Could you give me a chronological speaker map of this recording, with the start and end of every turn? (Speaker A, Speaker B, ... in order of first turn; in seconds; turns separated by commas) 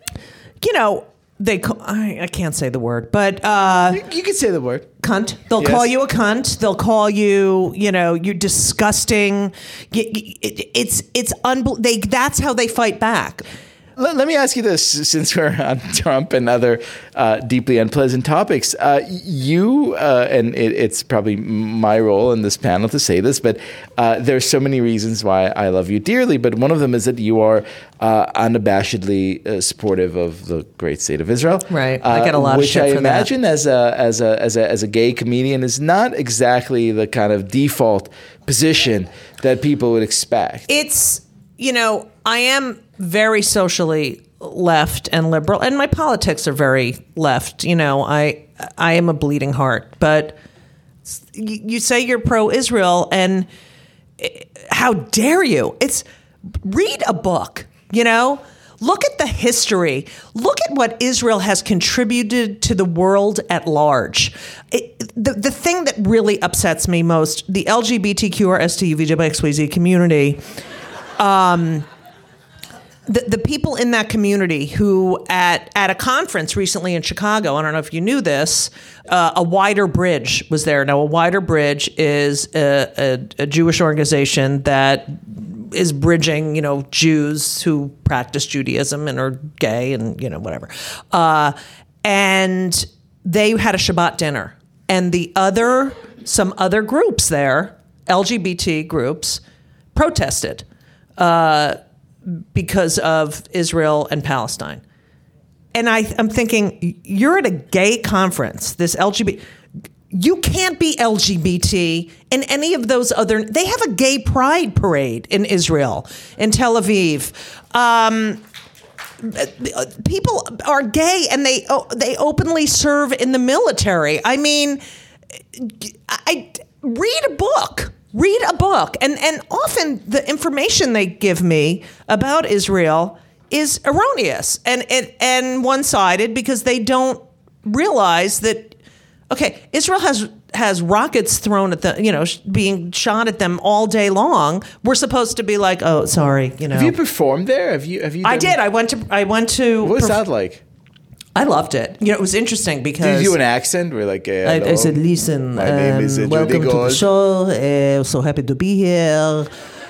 Speaker A: 0.6-4.0, Speaker B: 3.9-4.9, Speaker A: 5.0-13.4, Speaker B: 5.6-5.9, Speaker B: 14.0-40.7, Speaker A: 31.7-33.3, Speaker A: 40.7-50.4, Speaker A: 51.1-53.5, Speaker A: 54.2-56.0, Speaker A: 56.6-70.4, Speaker A: 71.2-71.9, Speaker A: 73.1-99.4, Speaker A: 99.9-100.7, Speaker A: 101.2-104.8, Speaker A: 105.7-109.4, Speaker A: 110.1-118.4, Speaker A: 119.2-124.8, Speaker A: 125.5-138.7, Speaker A: 139.3-146.9, Speaker B: 146.7-148.6, Speaker A: 148.2-150.2, Speaker B: 149.8-150.6, Speaker A: 151.3-153.4, Speaker B: 153.0-155.0, Speaker A: 154.4-159.5, Speaker B: 155.5-157.1